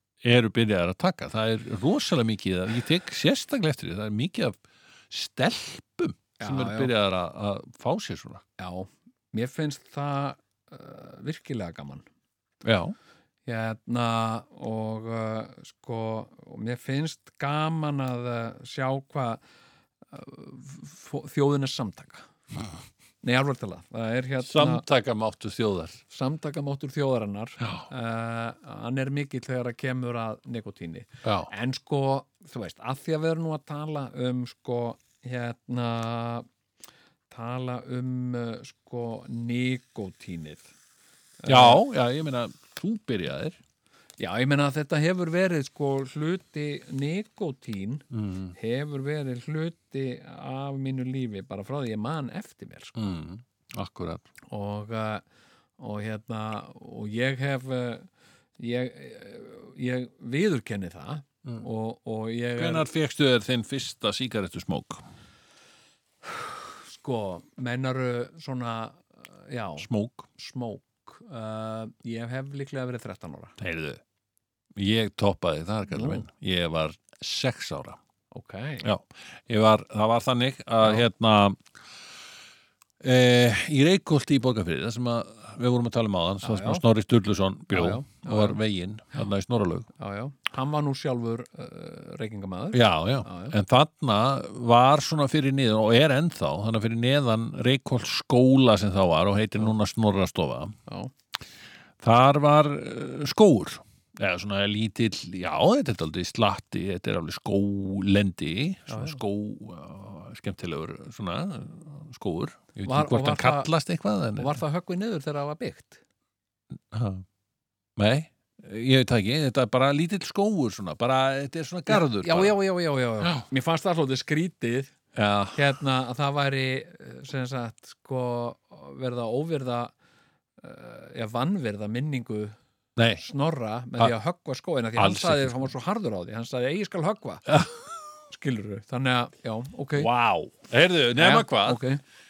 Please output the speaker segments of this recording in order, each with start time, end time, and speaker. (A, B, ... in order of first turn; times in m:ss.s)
0:00.2-0:08.4 A
0:06.4-0:06.9 B
0:08.6-0:12.1 B
0:12.6-0:13.0 A
0:13.5-0:19.4 B
0:20.1-0:22.3 B
0:23.2-0:24.8 B
0:24.4-0:26.0 A
0:26.1-0:36.5 B
0:27.6-0:27.9 A
0:31.2-0:31.5 A
0:37.3-0:40.7 B
0:41.4-0:41.8 B
0:41.5-0:43.6 A
0:44.2-0:52.9 B
0:48.1-0:48.6 A
0:53.0-0:54.3 A
0:54.5-0:55.2 B
0:55.8-1:02.9 B
1:02.6-1:05.0 A
1:06.3-1:13.6 B
1:09.8-1:10.3 A
1:13.6-1:14.0 A
1:14.8-1:18.0 A
1:15.9-1:16.2 B
1:18.3-1:18.9 B
1:18.8-1:21.6 A
1:23.0-1:29.9 A
1:26.4-1:26.8 B
1:27.7-1:28.6 B
1:30.0-1:33.5 B
1:32.7-1:40.8 A
1:42.0-1:54.5 A
1:48.9-1:49.2 B
1:52.8-1:53.7 B
1:54.4-1:56.0 B
1:56.9-1:57.2 A
1:58.0-2:02.6 A
2:01.9-2:05.0 B
2:05.2-2:05.6 A
2:05.5-2:09.9 B
2:10.6-2:12.6 B
2:13.0-2:13.2 A
2:13.2-2:17.6 B
2:15.0-2:15.7 A
2:17.5-2:17.8 A
2:18.3-2:20.1 B
2:20.0-2:21.8 A
2:21.2-2:22.0 B